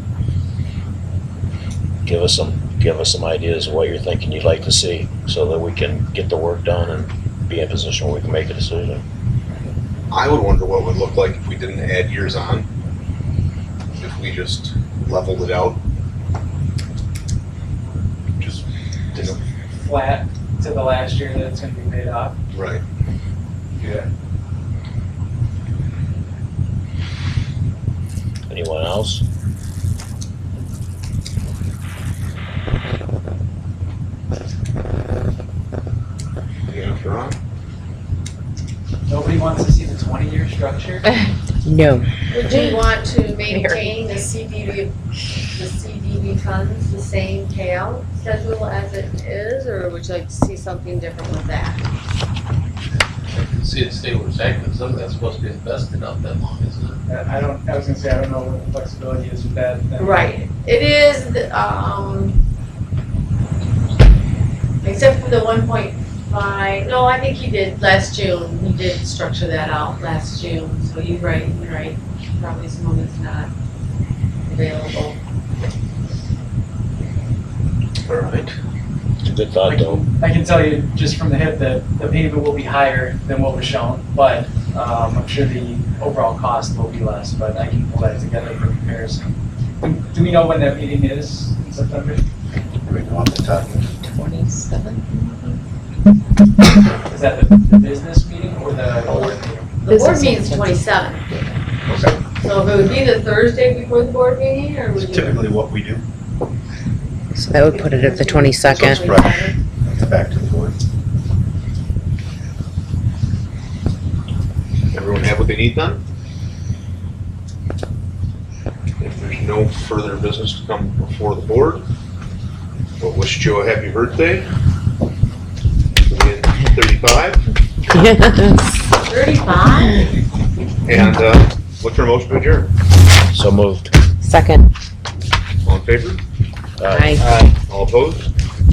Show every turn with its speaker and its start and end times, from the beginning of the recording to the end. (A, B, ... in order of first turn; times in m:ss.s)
0:02.0-0:09.0 A
0:10.1-0:12.7 B
0:14.0-0:15.8 B
0:19.1-0:22.4 C
0:22.5-0:22.8 B
0:28.5-0:29.2 A
0:36.7-0:37.4 B
0:39.1-0:41.0 C
0:41.6-0:42.8 D
0:42.3-0:44.9 E
0:43.5-0:43.8 D
0:45.5-0:51.8 E
0:53.3-0:57.0 F
0:57.0-1:00.3 C
1:00.0-1:02.4 E
1:04.8-1:13.5 E
1:14.5-1:15.2 E
1:18.0-1:18.6 B
1:19.2-1:20.0 A
1:19.6-1:29.3 C
1:29.8-1:32.2 C
1:32.8-1:33.9 G
1:34.0-1:35.6 D
1:37.1-1:39.7 C
1:39.8-1:41.2 E
1:39.9-1:40.8 D
1:41.9-1:42.2 G
1:42.3-1:45.4 E
1:45.0-1:46.0 G
1:47.3-1:49.0 D
1:47.7-1:49.6 E
1:48.7-1:50.8 G
1:54.9-1:56.0 B
1:59.0-2:01.8 B
2:03.0-2:04.5 B
2:06.1-2:07.4 B
2:08.0-2:08.6 D
2:09.0-2:10.0 E
2:10.8-2:12.7 B
2:13.3-2:13.9 A
2:14.2-2:14.7 D
2:15.6-2:16.2 B
2:16.8-2:17.4 A
2:16.9-2:17.2 D
2:17.7-2:18.3 B